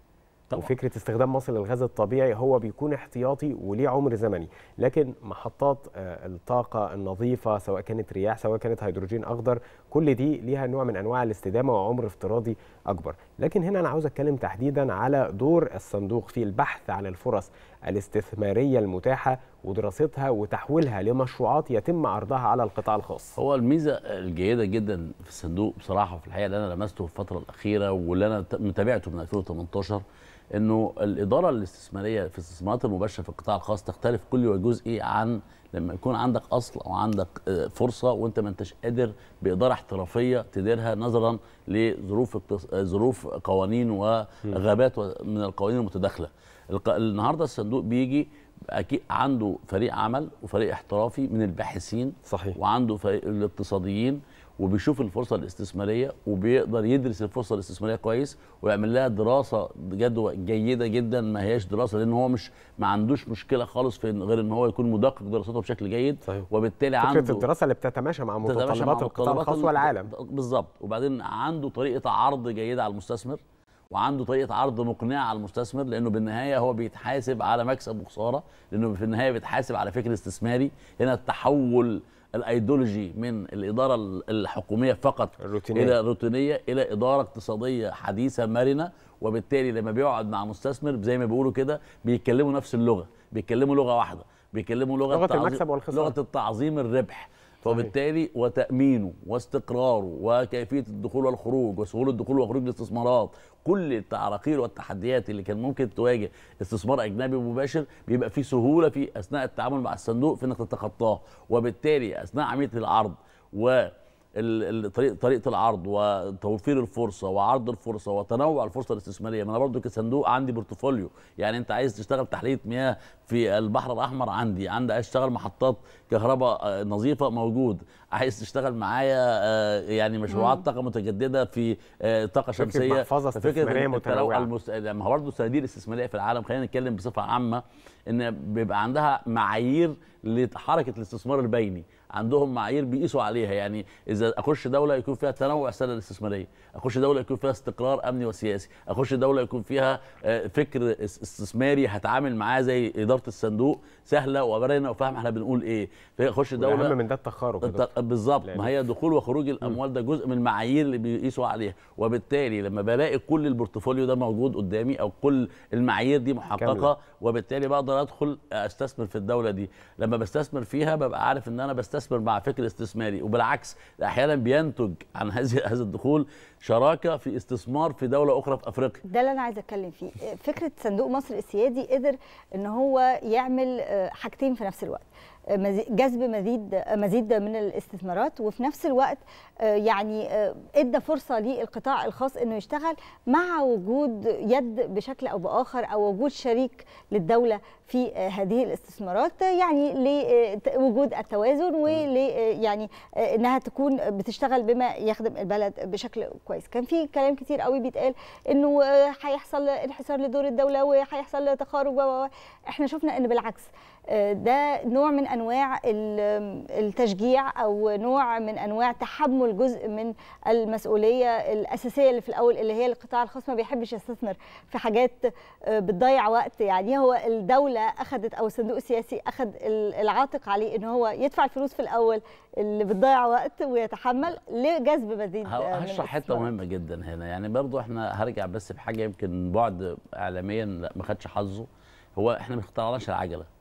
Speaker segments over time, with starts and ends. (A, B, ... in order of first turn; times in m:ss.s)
0:00.5-0:23.4 A
0:23.4-0:30.0 B
0:30.5-1:07.4 B
0:52.3-0:52.6 A
1:07.0-1:10.1 A
1:08.4-1:13.4 B
1:13.9-2:36.9 B
1:25.4-1:26.0 A
1:35.1-1:36.1 A
1:37.6-1:37.9 A
2:10.3-2:10.6 C
2:12.6-2:14.5 A
2:36.6-2:37.9 A
2:37.6-2:59.0 B
2:38.4-2:38.7 A
2:46.6-2:46.9 A
2:59.1-3:56.5 C
3:55.5-4:03.5 B